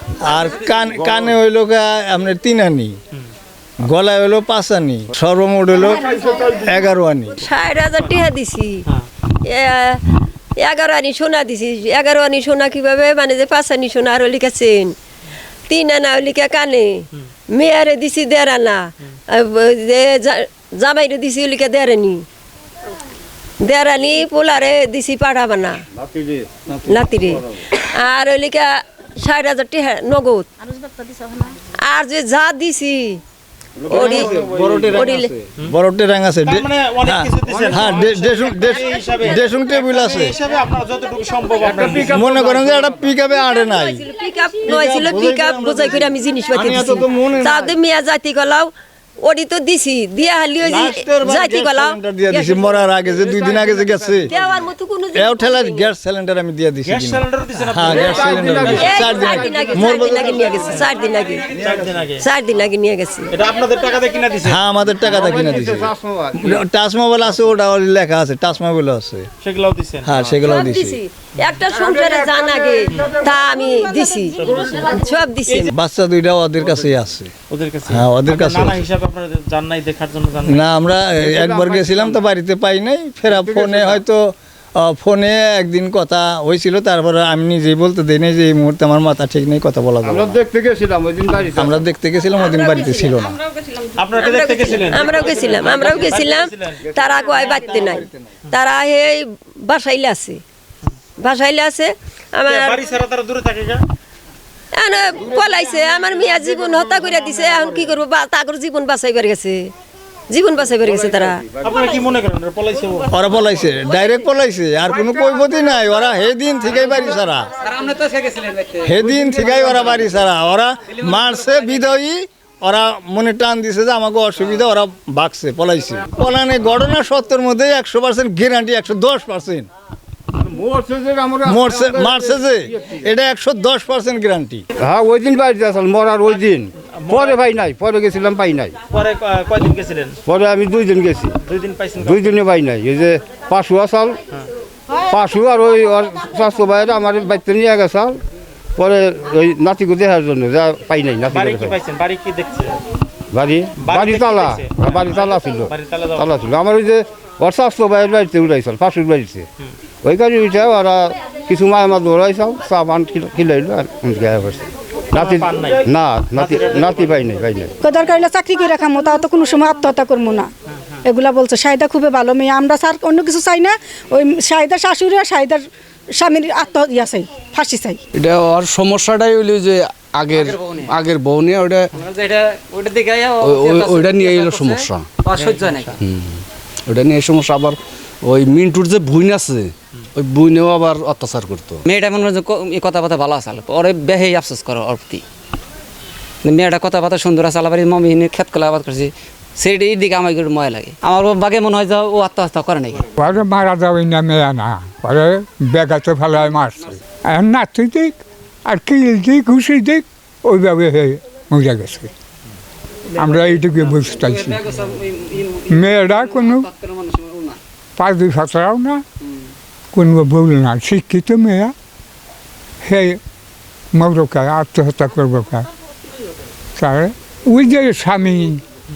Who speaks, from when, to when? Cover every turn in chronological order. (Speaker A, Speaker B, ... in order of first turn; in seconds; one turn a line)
Speaker A: 0.2-3.0
Speaker A: 3.8-7.4
Speaker B: 7.4-8.8
Speaker B: 9.4-10.0
Speaker B: 10.6-14.9
Speaker B: 15.7-22.2
Speaker B: 23.6-25.8
Speaker C: 26.0-26.6
Speaker B: 26.9-30.5
Speaker B: 31.7-33.2
Speaker C: 33.9-35.0
Speaker B: 33.9-34.3
Speaker A: 33.9-40.4
Speaker B: 34.8-35.3
Speaker D: 36.5-42.2
Speaker C: 41.6-43.1
Speaker A: 41.9-44.0
Speaker B: 43.3-52.8
Speaker A: 44.6-47.7
Speaker A: 50.6-54.3
Speaker B: 54.2-55.9
Speaker A: 55.1-60.3
Speaker D: 56.9-59.1
Speaker C: 57.9-60.9
Speaker B: 58.1-61.6
Speaker D: 61.5-62.2
Speaker B: 62.2-63.3
Speaker D: 63.3-64.6
Speaker A: 64.4-69.3
Speaker C: 65.0-66.6
Speaker D: 69.4-70.4
Speaker A: 70.0-71.0
Speaker B: 70.4-75.7
Speaker D: 74.4-74.9
Speaker A: 75.7-77.3
Speaker D: 77.5-80.6
Speaker A: 77.9-78.8
Speaker A: 80.4-90.3
Speaker C: 81.1-82.2
Speaker C: 83.3-84.0
Speaker C: 90.0-91.8
Speaker A: 91.6-93.4
Speaker B: 92.4-93.1
Speaker D: 94.0-96.8
Speaker B: 94.2-100.4
Speaker A: 96.9-98.2
Speaker B: 101.2-102.8
Speaker D: 102.5-103.8
Speaker B: 104.8-109.7
Speaker B: 110.3-111.4
Speaker D: 111.6-113.2
Speaker A: 113.1-117.5
Speaker E: 117.7-118.8
Speaker A: 118.8-129.7
Speaker C: 130.3-133.0
Speaker A: 131.4-134.6
Speaker C: 134.8-138.8
Speaker D: 137.0-137.4
Speaker D: 138.9-140.2
Speaker C: 140.2-141.4
Speaker D: 141.4-142.4
Speaker C: 142.0-144.2
Speaker C: 145.1-148.2
Speaker C: 148.8-151.8
Speaker D: 151.3-152.8
Speaker C: 153.3-159.4
Speaker D: 153.8-156.4
Speaker C: 160.0-167.7
Speaker D: 165.1-167.3
Speaker F: 167.8-170.5
Speaker F: 171.0-178.0
Speaker G: 178.1-181.9
Speaker E: 180.4-180.9
Speaker E: 181.9-186.0
Speaker G: 183.4-185.1
Speaker D: 185.3-185.9
Speaker G: 186.0-191.8
Speaker E: 191.9-195.2
Speaker E: 196.4-203.0
Speaker H: 203.2-212.1
Speaker H: 213.1-214.6
Speaker E: 213.9-217.6
Speaker H: 215.7-216.7
Speaker H: 217.9-219.0
Speaker H: 219.9-221.7
Speaker H: 222.8-223.2
Speaker H: 223.9-225.7
Speaker H: 226.8-228.6